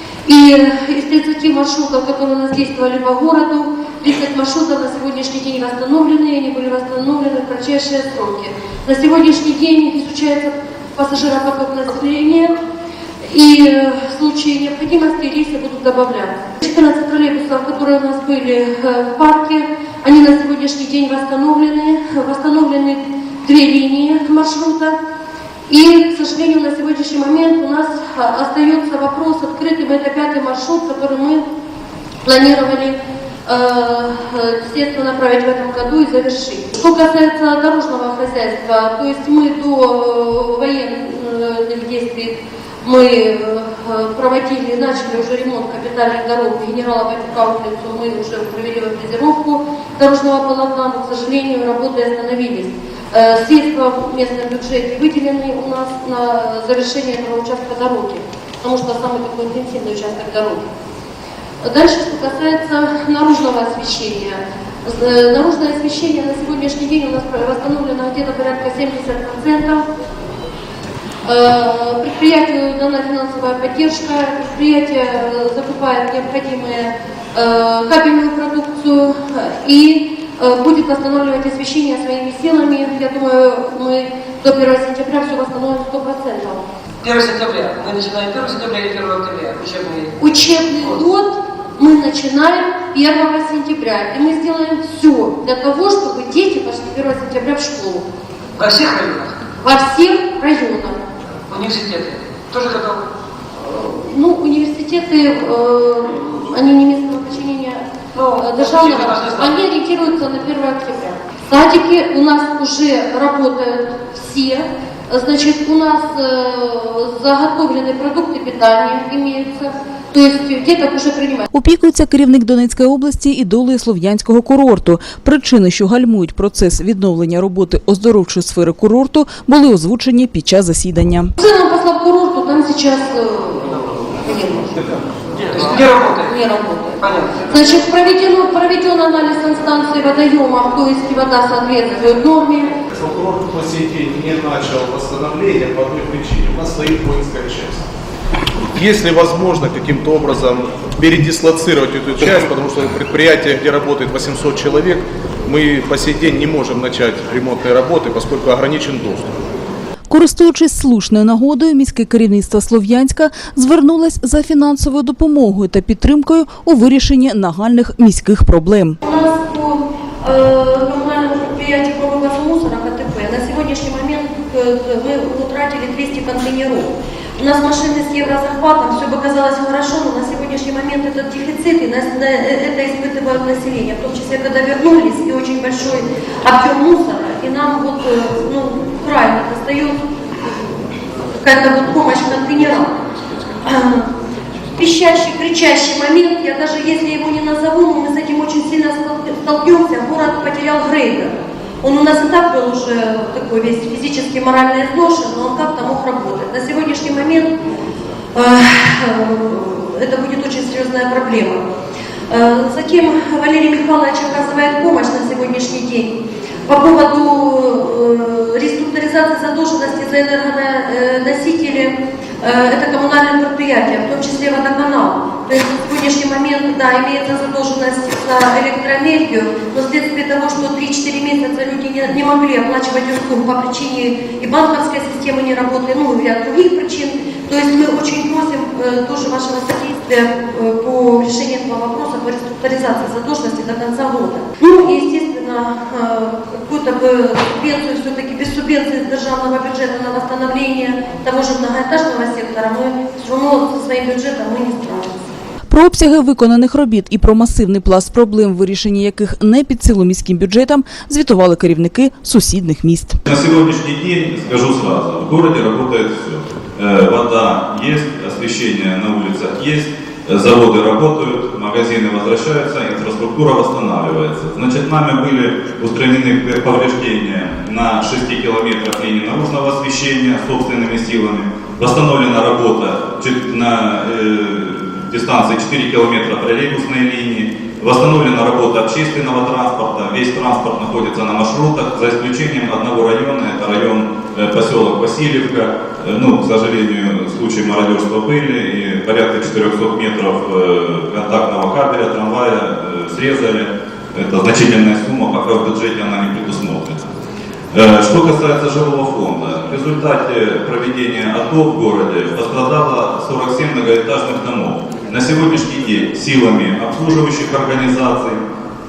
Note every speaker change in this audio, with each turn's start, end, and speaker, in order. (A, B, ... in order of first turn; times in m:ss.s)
0:00.2-0:12.5 A
0:13.2-0:25.0 A
0:25.7-0:31.4 A
0:32.2-1:00.7 A
1:01.6-1:09.8 A
1:11.2-1:26.6 A
1:27.0-1:30.1 B
1:30.2-1:38.0 A
1:38.6-1:39.3 B
1:39.6-1:41.0 A
1:41.5-1:43.0 B
1:43.6-2:01.5 A
1:48.1-1:49.6 B
2:01.5-2:11.3 C
2:11.4-2:14.8 A
2:15.5-2:16.3 B
2:16.1-2:22.8 A
2:17.0-2:17.6 B
2:22.9-2:27.8 D
2:28.6-2:39.4 D
2:40.1-2:49.0 C
2:49.0-3:10.0 A
3:11.4-3:13.0 A
3:13.6-3:14.1 A
3:14.8-3:27.5 A
3:28.3-3:31.6 A
3:32.3-3:36.1 A
3:36.6-4:15.2 A
4:15.7-4:23.2 C
4:23.3-5:07.0 E
5:07.7-5:18.4 E